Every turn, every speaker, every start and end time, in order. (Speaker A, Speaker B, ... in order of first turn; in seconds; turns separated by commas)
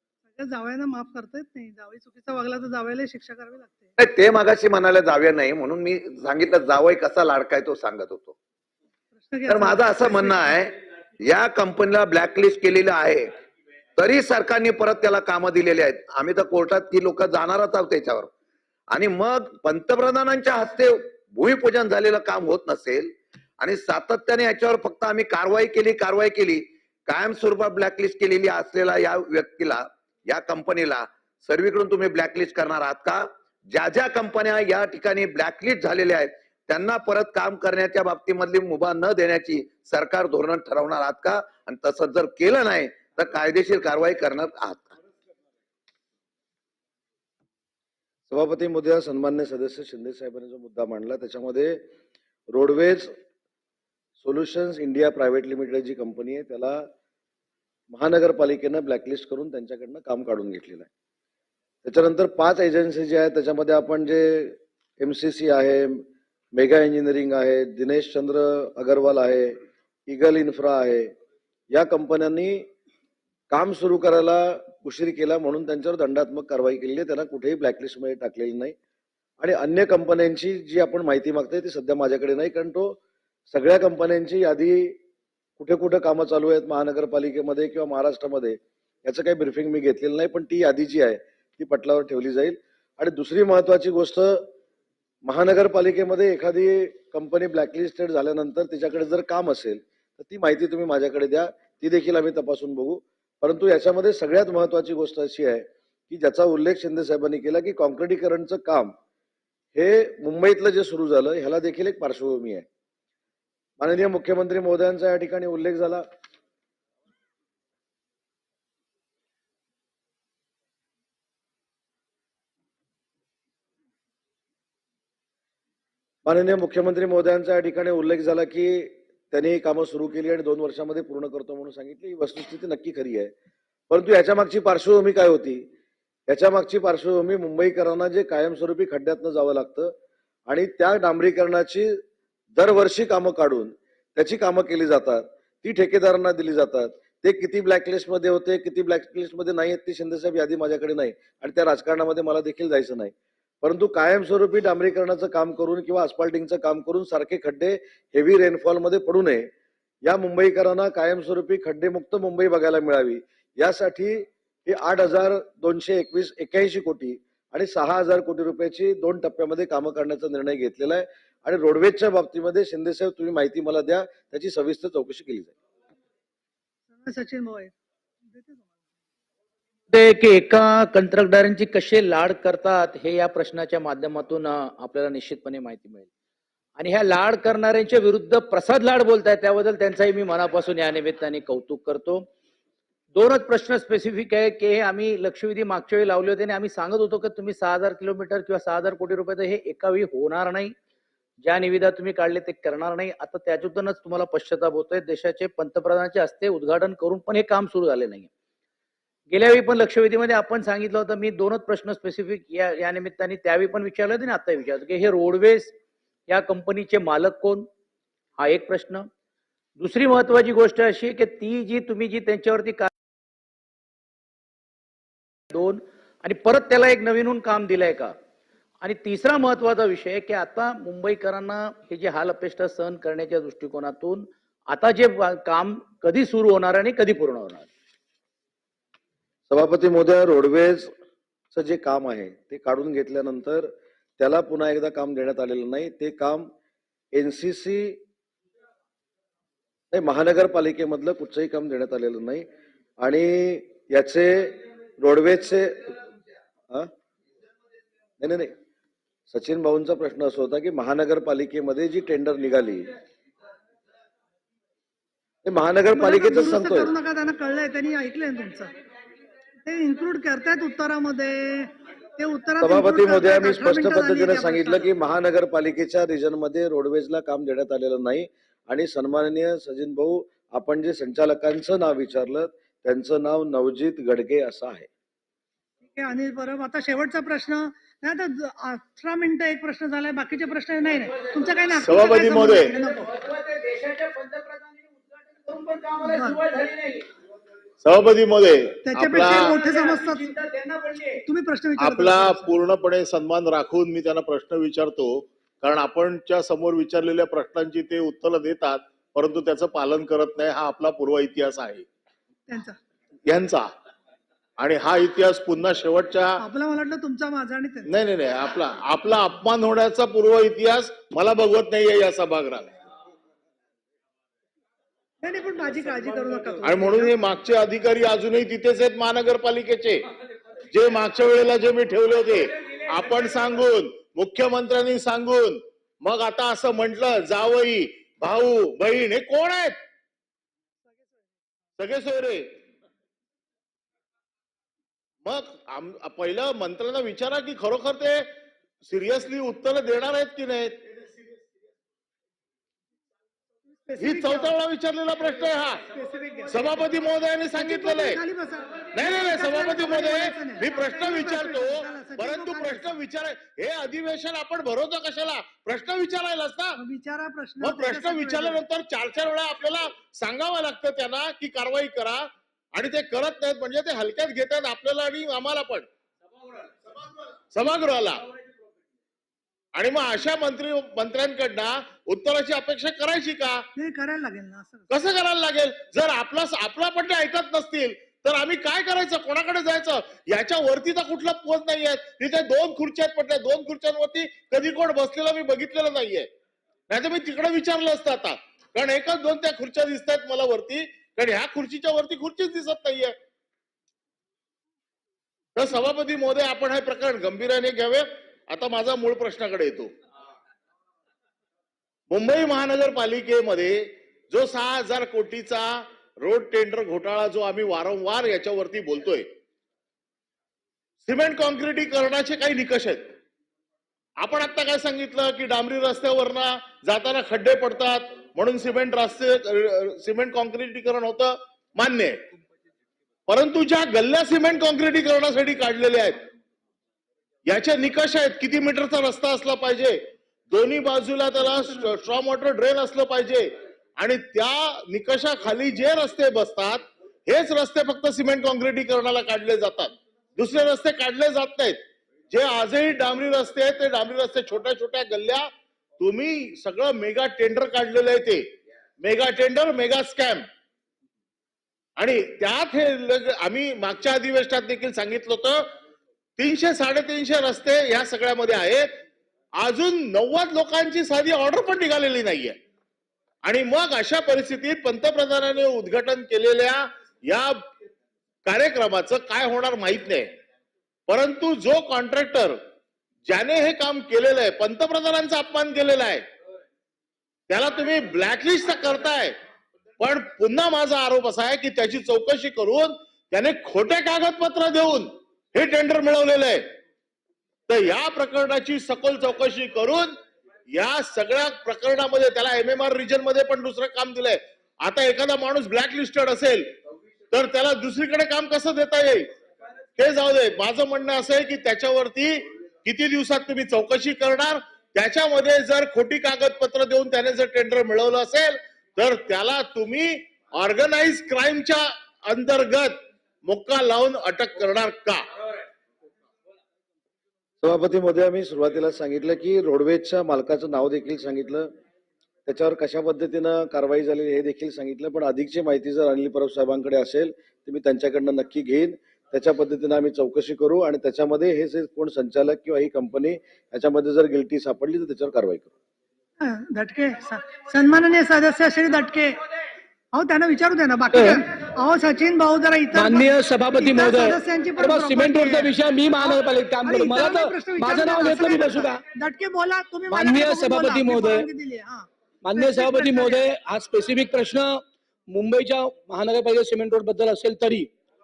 Speaker A: 0.3-3.9, Speaker B: 4.0-8.3, Speaker A: 9.2-10.5, Speaker B: 9.5-13.3, Speaker B: 14.0-18.3, Speaker B: 18.9-44.9, Speaker C: 48.3-51.8, Speaker C: 52.5-53.1, Speaker C: 54.2-56.9, Speaker C: 57.9-60.9, Speaker C: 61.8-71.1, Speaker C: 71.7-72.7, Speaker C: 73.5-78.7, Speaker C: 79.4-83.0, Speaker C: 83.5-85.0, Speaker C: 85.6-94.5, Speaker C: 95.2-108.9, Speaker C: 109.7-112.7, Speaker C: 113.8-116.0, Speaker C: 126.2-133.3, Speaker C: 133.9-135.6, Speaker C: 136.3-139.9, Speaker C: 140.5-142.0, Speaker C: 142.5-159.5, Speaker C: 160.0-175.5, Speaker A: 176.9-177.7, Speaker A: 178.3-178.6, Speaker D: 179.9-186.1, Speaker D: 186.8-192.2, Speaker D: 193.1-200.7, Speaker D: 201.4-208.3, Speaker D: 209.3-215.7, Speaker D: 216.3-217.7, Speaker D: 218.4-219.1, Speaker D: 219.8-222.9, Speaker D: 225.5-228.2, Speaker D: 228.8-237.7, Speaker C: 239.5-240.9, Speaker C: 241.5-246.5, Speaker C: 247.1-248.0, Speaker C: 249.9-252.5, Speaker C: 253.0-255.9, Speaker C: 258.2-258.5, Speaker C: 259.3-262.9, Speaker C: 265.4-266.9, Speaker A: 265.9-268.7, Speaker A: 269.6-274.9, Speaker C: 272.6-284.9, Speaker A: 285.8-293.2, Speaker E: 291.7-292.7, Speaker D: 293.1-297.0, Speaker A: 296.0-296.4, Speaker E: 297.8-299.5, Speaker A: 298.9-300.3, Speaker D: 299.5-301.2, Speaker A: 301.2-302.5, Speaker E: 301.8-311.9, Speaker A: 312.5-312.8, Speaker E: 313.3-313.7, Speaker E: 314.6-316.4, Speaker A: 316.4-317.9, Speaker E: 317.9-322.8, Speaker A: 325.2-327.1, Speaker E: 326.6-330.0, Speaker E: 330.7-339.8, Speaker E: 341.8-342.5, Speaker E: 345.2-348.3, Speaker E: 348.8-350.9, Speaker A: 353.8-354.5, Speaker E: 354.0-355.9, Speaker A: 355.9-356.8, Speaker E: 356.5-358.2, Speaker A: 357.5-363.0, Speaker E: 358.9-366.8, Speaker A: 366.8-368.6, Speaker E: 367.6-375.9, Speaker E: 377.5-378.2, Speaker E: 379.7-383.7, Speaker A: 383.8-384.8, Speaker E: 384.9-396.3, Speaker E: 396.9-403.1, Speaker E: 405.6-409.9, Speaker E: 412.1-419.3, Speaker E: 421.0-423.1, Speaker E: 424.2-432.2, Speaker E: 433.3-436.3, Speaker E: 437.4-455.4, Speaker E: 456.0-458.4, Speaker E: 459.0-460.4, Speaker E: 462.0-465.7, Speaker E: 466.4-468.9, Speaker E: 469.6-472.6, Speaker E: 473.4-477.7, Speaker E: 478.4-480.3, Speaker E: 481.1-482.6, Speaker E: 483.2-486.2, Speaker E: 487.5-489.4, Speaker E: 490.0-496.7, Speaker E: 497.7-500.1, Speaker E: 500.7-506.8, Speaker E: 507.3-509.3, Speaker E: 510.0-525.2, Speaker C: 527.6-531.7, Speaker C: 532.5-545.7, Speaker A: 546.4-549.4, Speaker A: 550.1-563.4, Speaker F: 551.1-551.4, Speaker F: 552.9-559.0, Speaker F: 560.1-561.5, Speaker F: 562.4-567.9